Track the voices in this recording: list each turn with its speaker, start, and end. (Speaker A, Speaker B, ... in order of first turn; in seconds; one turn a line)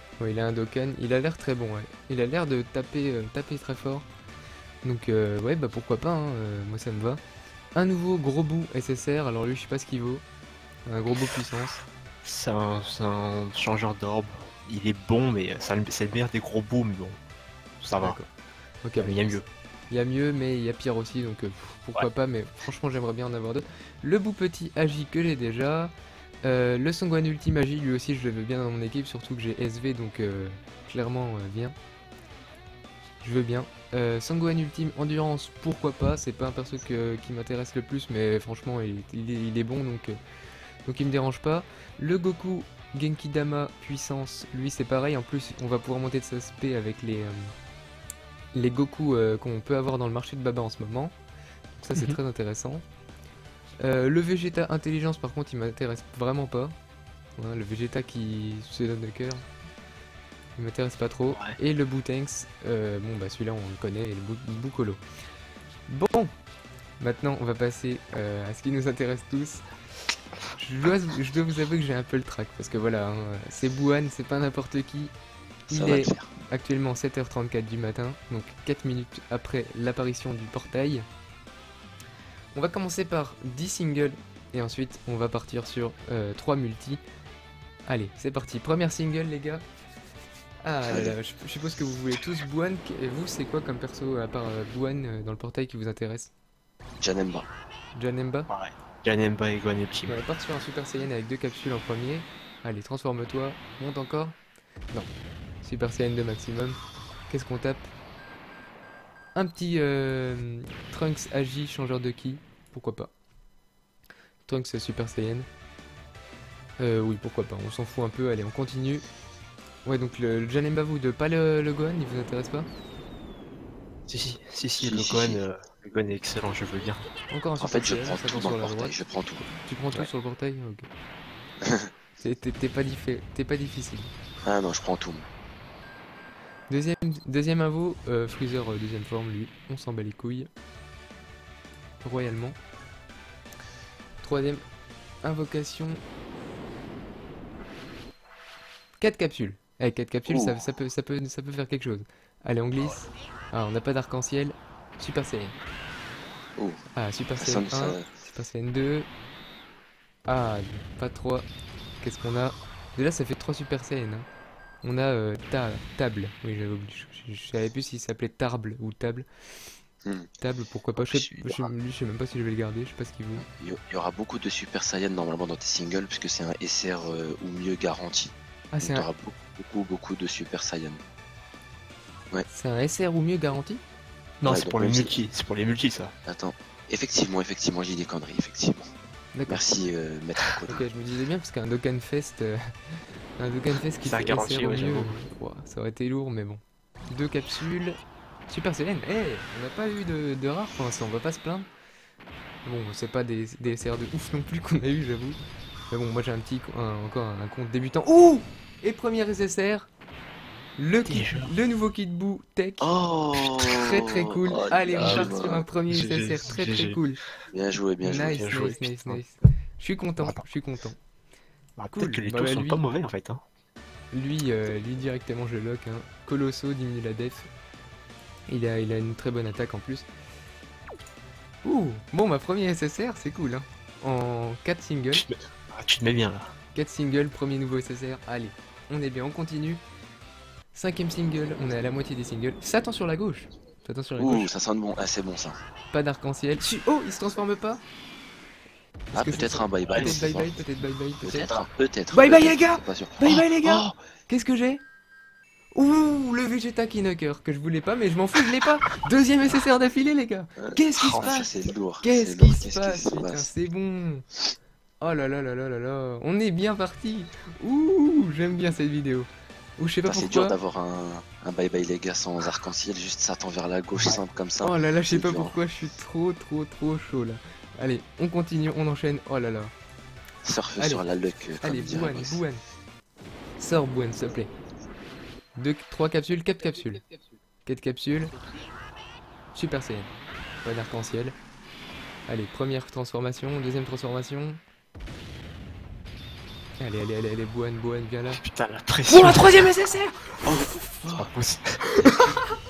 Speaker A: 0.2-4.1
Speaker A: 4.8-7.2
Speaker A: 7.7-10.2
Speaker A: 10.9-11.8
Speaker B: 12.2-17.2
Speaker B: 17.8-18.2
Speaker A: 18.0-18.3
Speaker A: 18.8-19.4
Speaker B: 19.0-19.4
Speaker A: 19.9-25.9
Speaker A: 26.4-31.8
Speaker A: 33.2-40.2
Speaker A: 40.9-47.5
Speaker A: 48.5-51.1
Speaker A: 51.8-52.8
Speaker A: 53.8-56.7
Speaker A: 57.4-59.4
Speaker A: 60.6-65.0
Speaker B: 61.3-61.6
Speaker A: 65.9-66.3
Speaker A: 67.0-69.6
Speaker A: 70.6-75.1
Speaker A: 75.7-81.1
Speaker C: 75.7-76.3
Speaker A: 82.5-87.0
Speaker A: 87.9-89.6
Speaker A: 90.6-96.3
Speaker C: 90.9-91.2
Speaker C: 97.0-97.5
Speaker A: 97.9-98.5
Speaker B: 98.5-100.2
Speaker A: 100.1-104.4
Speaker A: 105.6-106.8
Speaker A: 107.3-107.9
Speaker A: 109.3-113.1
Speaker A: 114.5-115.5
Speaker A: 116.8-119.0
Speaker A: 119.8-122.7
Speaker B: 124.1-127.1
Speaker C: 124.8-125.4
Speaker A: 127.3-129.0
Speaker C: 127.6-129.4
Speaker A: 129.5-130.9
Speaker C: 131.6-131.9
Speaker A: 132.2-134.1
Speaker C: 134.4-135.3
Speaker A: 136.7-140.5
Speaker A: 142.0-142.6
Speaker A: 144.2-144.6
Speaker A: 145.2-146.0
Speaker A: 149.0-155.6
Speaker C: 150.3-150.6
Speaker A: 156.9-159.1
Speaker C: 157.4-158.1
Speaker A: 160.3-161.5
Speaker A: 162.0-164.3
Speaker A: 164.8-169.3
Speaker A: 170.4-173.4
Speaker C: 171.0-171.7
Speaker C: 173.4-181.0
Speaker A: 178.7-179.1
Speaker A: 182.5-183.8
Speaker B: 184.4-186.1
Speaker C: 184.4-185.1
Speaker C: 186.2-188.9
Speaker A: 189.3-189.6
Speaker C: 189.5-190.8
Speaker A: 190.7-192.6
Speaker A: 193.4-201.7
Speaker B: 194.0-195.2
Speaker A: 202.6-205.4
Speaker A: 205.9-209.9
Speaker A: 210.8-212.9
Speaker B: 211.1-211.5
Speaker C: 212.8-215.7
Speaker A: 213.6-217.2
Speaker B: 214.9-215.3
Speaker B: 215.9-217.0
Speaker C: 217.5-218.4
Speaker A: 218.0-221.0
Speaker B: 218.2-219.2
Speaker B: 221.8-223.4
Speaker A: 221.9-222.8
Speaker A: 224.1-227.5
Speaker A: 228.5-230.1
Speaker A: 231.6-235.2
Speaker B: 235.1-236.5
Speaker A: 236.7-239.8
Speaker A: 240.7-244.5
Speaker C: 244.2-245.6
Speaker A: 245.9-247.8
Speaker A: 249.1-254.8
Speaker C: 249.1-250.5
Speaker C: 251.2-254.0
Speaker A: 255.7-264.2
Speaker C: 260.6-263.5
Speaker B: 261.0-261.4
Speaker A: 265.0-270.6
Speaker C: 270.1-275.6
Speaker A: 274.6-279.7
Speaker C: 280.4-282.4
Speaker A: 280.8-282.6
Speaker A: 283.6-284.5
Speaker A: 285.6-287.0
Speaker A: 287.6-288.4
Speaker A: 289.5-290.1
Speaker A: 290.6-291.4
Speaker A: 292.3-294.6
Speaker A: 296.8-298.4
Speaker B: 298.3-299.7
Speaker A: 299.1-301.0
Speaker C: 300.4-301.3
Speaker B: 301.1-302.2
Speaker A: 302.0-302.5